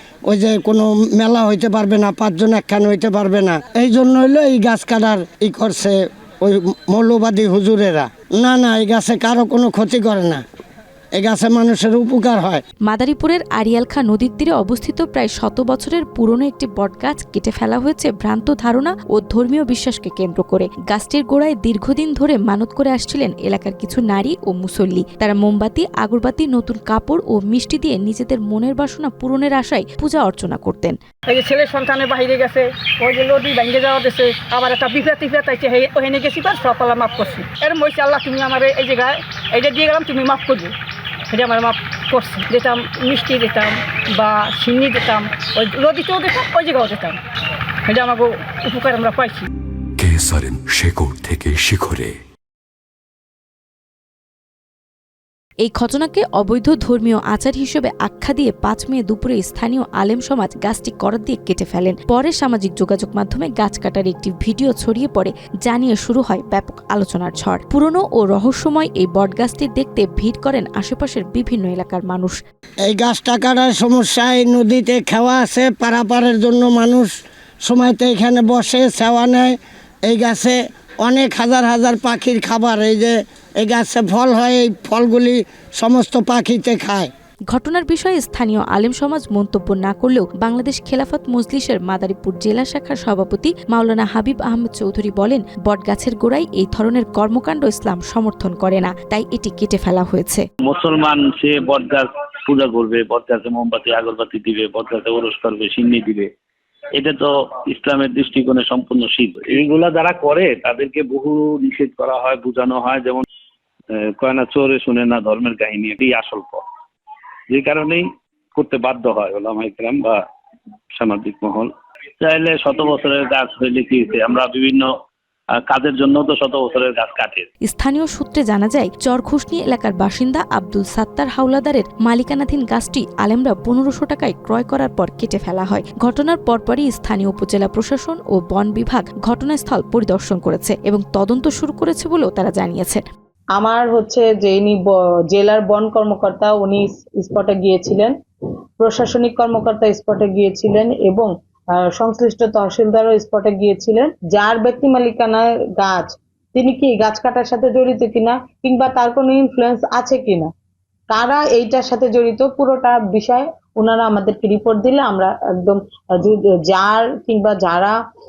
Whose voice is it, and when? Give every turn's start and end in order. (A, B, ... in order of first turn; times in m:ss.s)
0:00.3-0:10.4 A
0:11.2-0:12.6 A
0:12.8-0:31.0 B
0:31.3-0:40.7 C
0:41.3-0:47.2 C
0:47.9-0:49.4 C
0:50.0-0:52.1 D
0:55.6-1:12.4 B
1:12.9-1:17.1 A
1:17.6-1:19.5 A
1:20.1-1:27.1 A
1:27.5-1:40.4 B
1:40.6-1:46.3 E
1:47.0-1:53.2 E
1:53.9-1:56.6 E
1:57.5-2:00.2 E
2:00.9-2:01.7 E
2:02.2-2:04.9 E
2:05.6-2:07.5 E
2:07.6-2:23.0 B
2:23.6-2:28.1 F
2:28.8-2:40.5 F
2:41.1-2:47.9 F